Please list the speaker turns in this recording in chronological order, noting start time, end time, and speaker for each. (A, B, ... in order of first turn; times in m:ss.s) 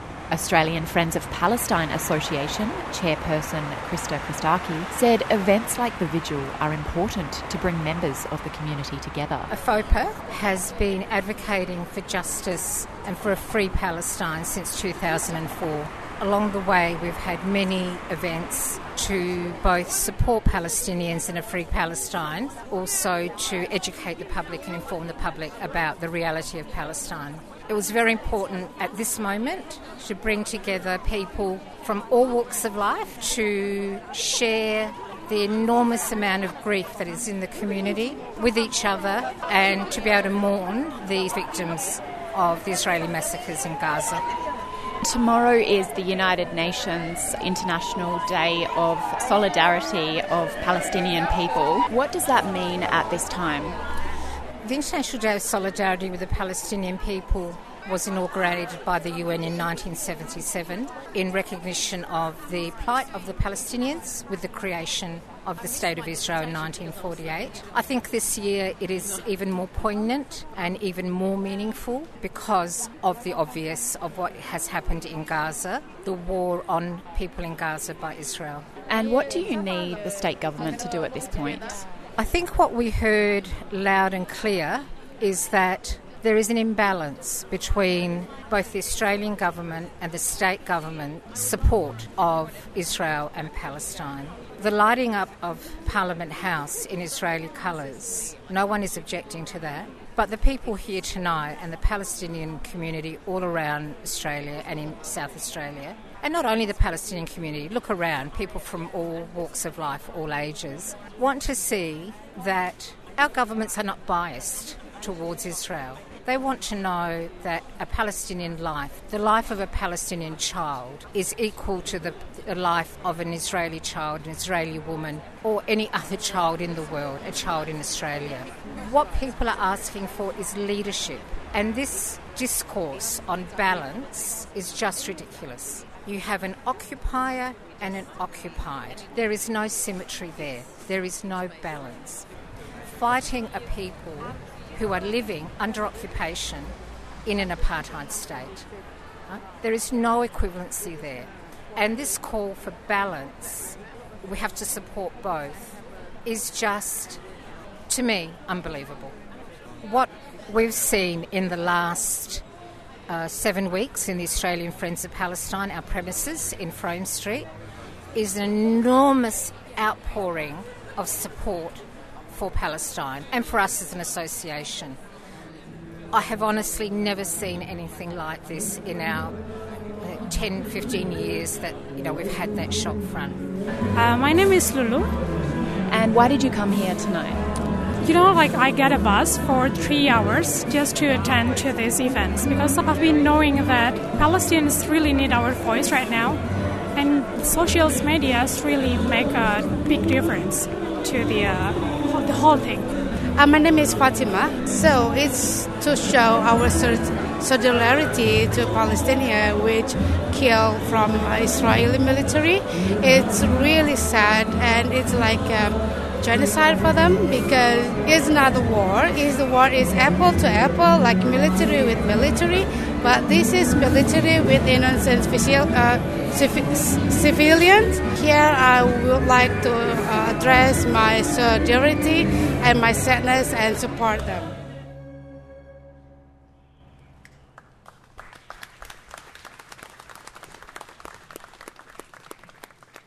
0:00.3-0:09.5 A
0:09.5-0:44.3 B
0:45.0-0:53.8 A
0:54.6-1:18.7 B
1:18.9-1:21.9 A
1:22.2-2:22.3 B
2:22.9-2:28.7 B
2:29.3-2:37.2 B
2:37.9-2:39.2 B
2:39.8-2:42.4 B
2:43.1-2:47.5 B
2:48.1-2:55.0 B
2:56.1-2:59.4 B
3:00.0-3:03.4 B
3:03.9-3:05.1 C
3:05.9-3:07.4 A
3:08.0-3:16.4 C
3:17.0-3:22.9 C
3:23.4-3:54.6 D